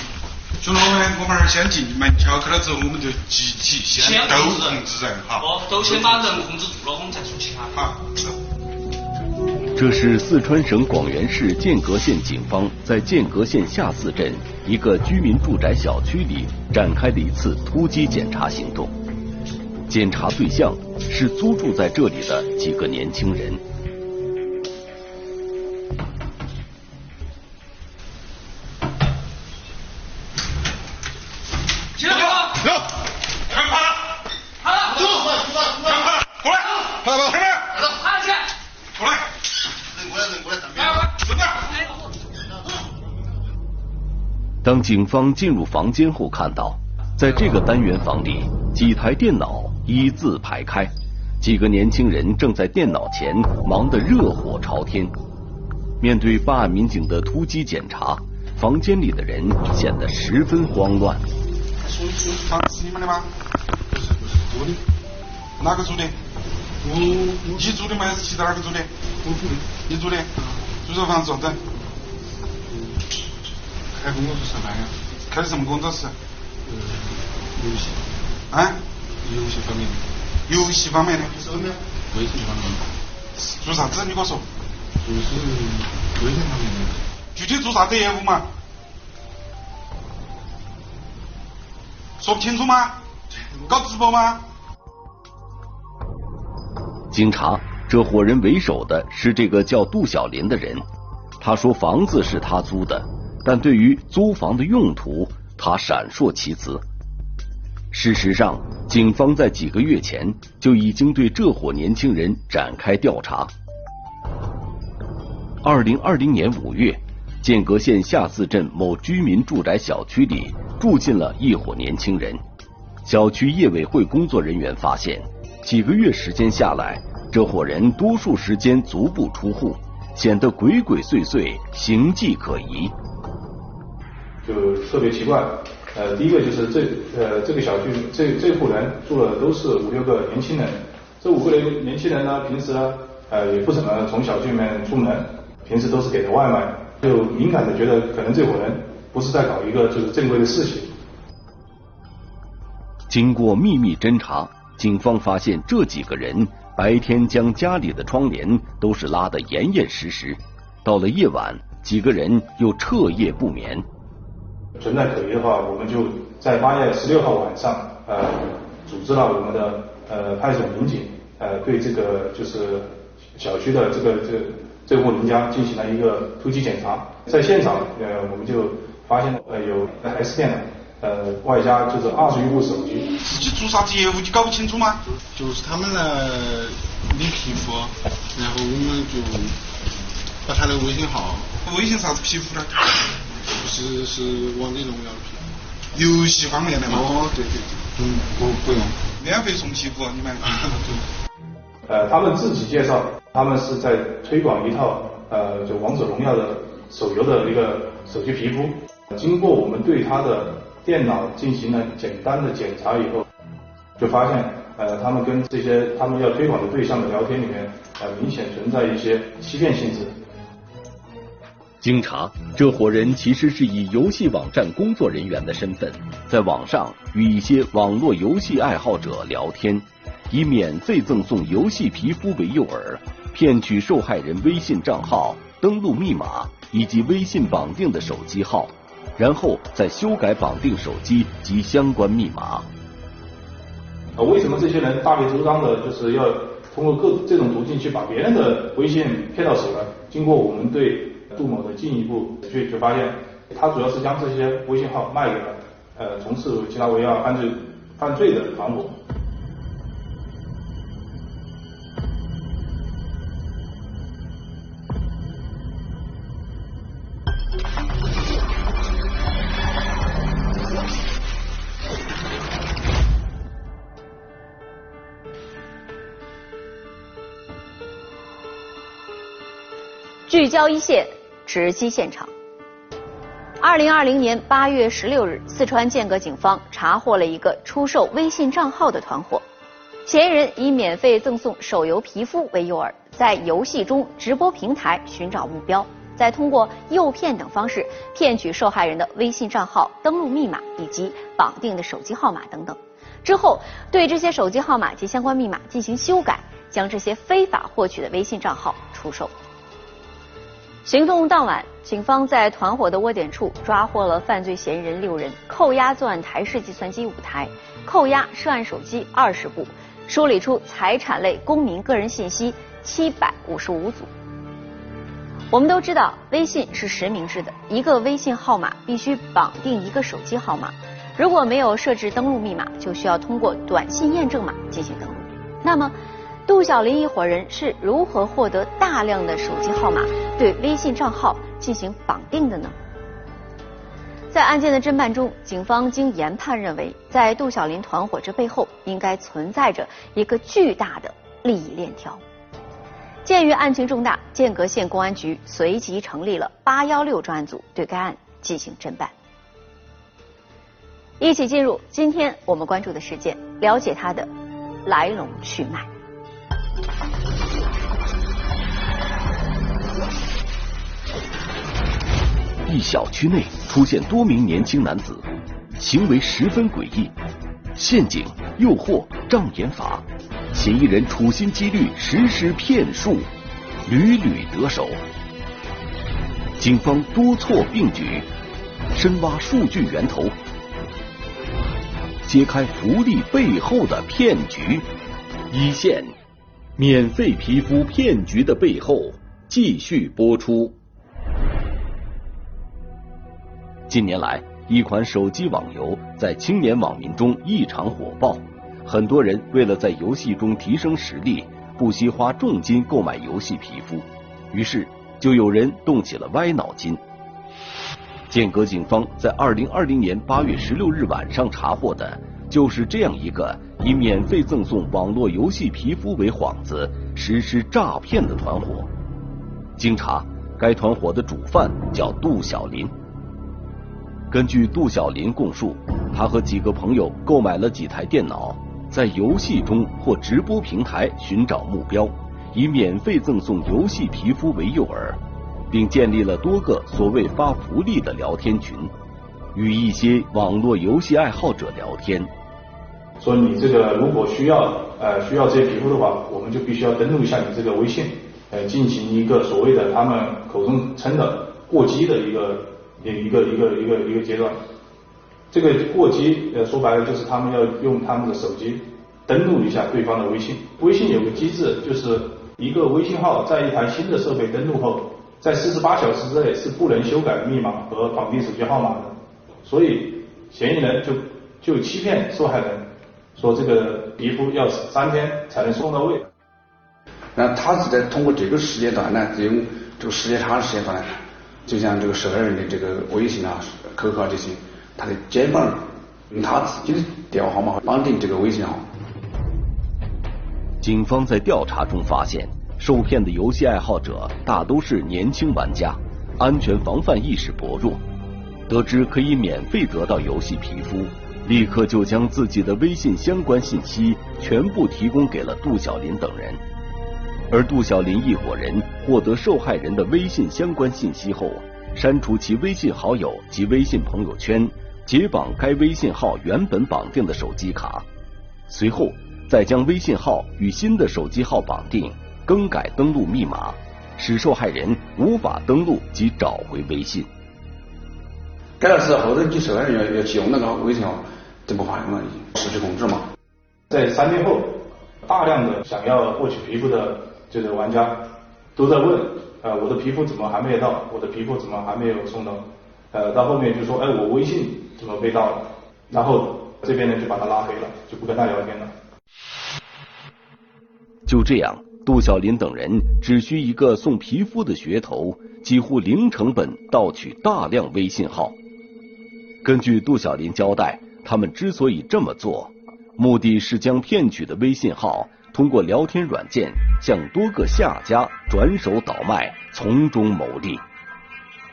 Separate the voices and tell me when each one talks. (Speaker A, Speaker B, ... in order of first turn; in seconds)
Speaker A: 0.6-6.3, 7.7-8.1, 32.1-32.8, 33.6-33.9, 35.0-37.9, 39.0-39.3, 40.5-41.6, 62.4-63.3, 65.6-66.2, 67.5-68.9, 69.9-71.6, 75.3-76.2, 78.5-78.8, 80.5-81.7, 83.5-84.5, 87.3-88.5, 92.2-93.0, 93.6-94.4, 183.2-185.0, 191.6-192.9, 195.9-197.2, 199.2-200.5
Speaker B: 4.0-4.8, 5.4-7.7
Speaker C: 9.8-18.9, 19.9-23.6, 44.6-55.1, 56.0-61.2, 97.1-100.8, 101.4-106.8, 107.9-113.5, 115.6-122.4, 123.0-132.9, 153.1-163.9, 221.8-242.7, 372.7-377.1, 377.7-383.3, 383.9-385.0, 386.6-388.3, 388.9-390.4, 392.2-394.9, 395.5-396.2, 396.8-400.8, 403.9-417.0, 418.3-428.9, 429.8-432.9, 434.3-448.9, 449.5-452.3, 500.8-508.0, 508.7-516.6, 517.5-528.1, 528.7-537.3, 561.3-568.6, 569.6-580.8
Speaker D: 63.9-64.8, 66.8-67.7, 69.2-69.8, 72.7-73.0, 73.9-75.0, 76.7-78.0, 79.2-80.1, 82.1-82.9, 85.0-87.0, 185.3-189.6, 190.4-191.5, 193.5-195.4, 196.9-199.1, 200.5-201.0
Speaker E: 134.4-150.9, 164.8-183.1, 201.9-213.3, 214.0-220.2, 244.2-259.0, 453.2-464.6, 465.5-486.3, 543.9-558.9
Speaker F: 280.3-282.3, 283.6-289.4, 290.1-309.3, 310.9-324.1, 325.5-335.9, 336.5-342.8, 344.3-352.2, 353.2-359.1, 361.2-364.3, 364.9-365.9
Speaker G: 487.4-498.9, 538.8-543.3